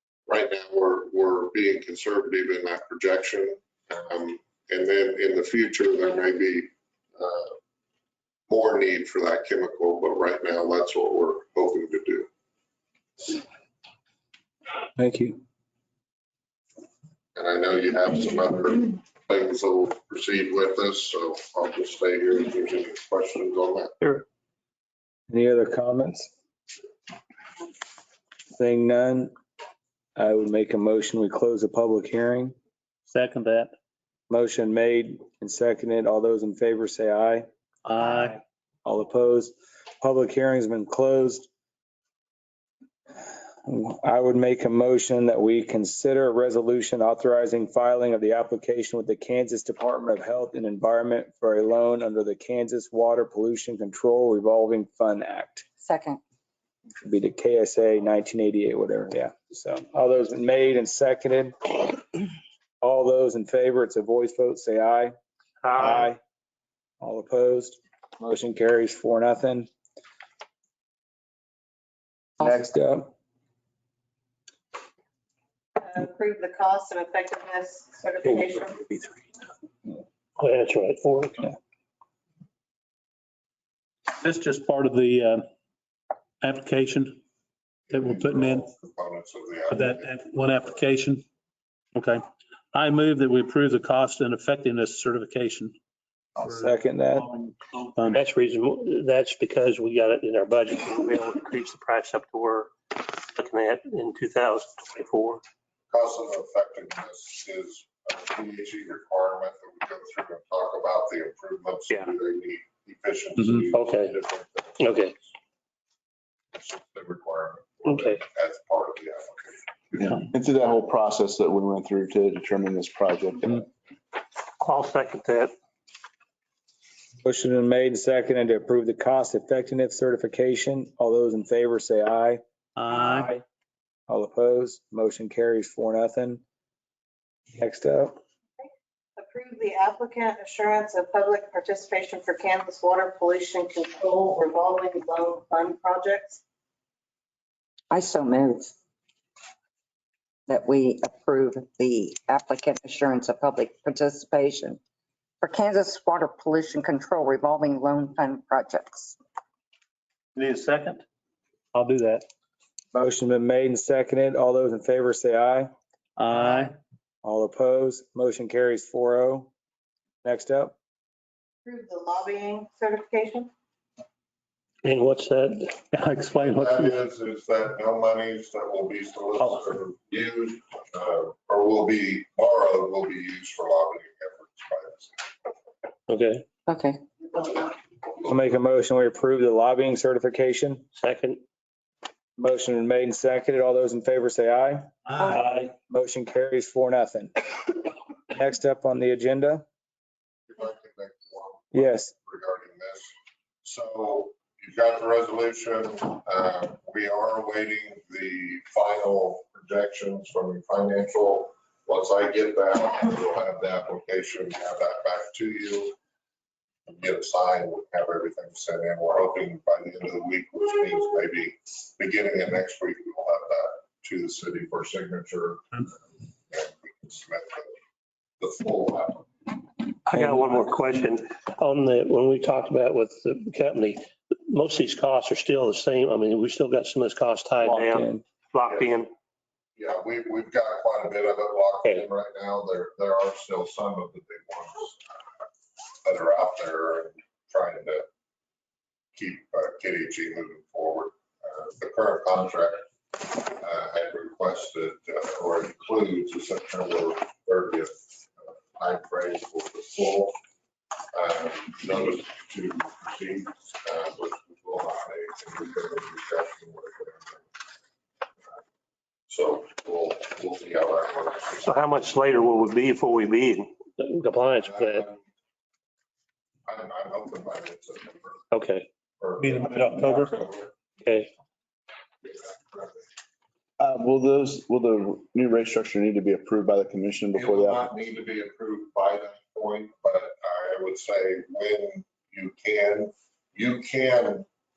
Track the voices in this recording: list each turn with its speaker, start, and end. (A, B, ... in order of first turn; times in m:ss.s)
0:00.3-0:07.6 A
0:08.5-0:12.3 A
0:15.0-0:15.4 B
0:17.4-0:23.9 A
0:25.3-0:26.3 B
0:28.5-0:29.3 B
0:30.2-0:32.6 B
0:33.1-0:33.7 C
0:34.3-0:37.5 B
0:37.9-0:38.4 C
0:38.8-0:41.5 B
0:43.6-0:55.6 B
0:55.8-0:56.2 D
0:57.0-1:01.8 B
1:02.8-1:05.1 B
1:05.6-1:06.1 E
1:05.8-1:06.2 B
1:07.0-1:09.7 B
1:12.4-1:13.1 B
1:15.9-1:18.8 F
1:20.4-1:21.5 E
1:24.2-1:25.5 C
1:26.4-1:27.2 C
1:27.9-1:30.3 A
1:27.9-1:28.7 C
1:29.7-1:31.2 C
1:32.0-1:35.8 C
1:36.4-1:37.3 B
1:36.4-1:38.2 C
1:38.1-1:45.4 E
1:45.9-1:55.1 A
1:53.7-1:54.1 E
1:54.8-1:55.1 E
1:56.5-2:00.1 A
1:57.9-1:58.2 E
2:00.0-2:03.7 G
2:04.6-2:05.5 E
2:07.2-2:12.4 B
2:12.8-2:13.3 C
2:12.9-2:13.4 B
2:14.1-2:16.4 B
2:17.6-2:18.2 B
2:19.3-2:26.4 F
2:27.9-2:28.7 D
2:30.5-2:34.8 D
2:35.4-2:39.2 D
2:40.4-2:41.0 C
2:41.7-2:42.2 C
2:42.9-2:45.7 B
2:46.2-2:46.7 C
2:47.2-2:49.5 B
2:50.2-2:50.8 B
2:51.7-2:53.5 F
2:54.8-2:55.8 E
2:55.9-2:57.0 C
2:56.4-3:05.3 A
3:06.1-3:06.4 E
3:06.7-3:07.0 D
3:08.2-3:10.9 B
3:11.0-3:11.4 E
3:12.4-3:17.4 B
3:15.1-3:15.7 C
3:18.3-3:19.6 B
3:20.5-3:23.1 A
3:21.7-3:22.1 B
3:23.6-3:36.0 A
3:36.9-3:47.8 A
3:48.4-3:49.5 A
3:50.1-3:59.1 E
3:50.2-3:50.6 B
3:57.6-3:58.2 B
3:59.8-4:05.0 A
4:06.0-4:08.1 A
4:09.2-4:20.4 A
4:21.1-4:27.5 A
4:29.3-4:31.7 A
4:31.6-4:35.0 E
4:34.6-4:35.2 A
4:36.7-4:38.5 A
4:38.5-4:38.9 E
4:39.2-4:40.7 A
4:39.4-4:40.4 C
4:41.0-4:41.3 E
4:42.2-4:43.0 A
4:43.8-4:47.9 G
4:47.4-4:54.5 A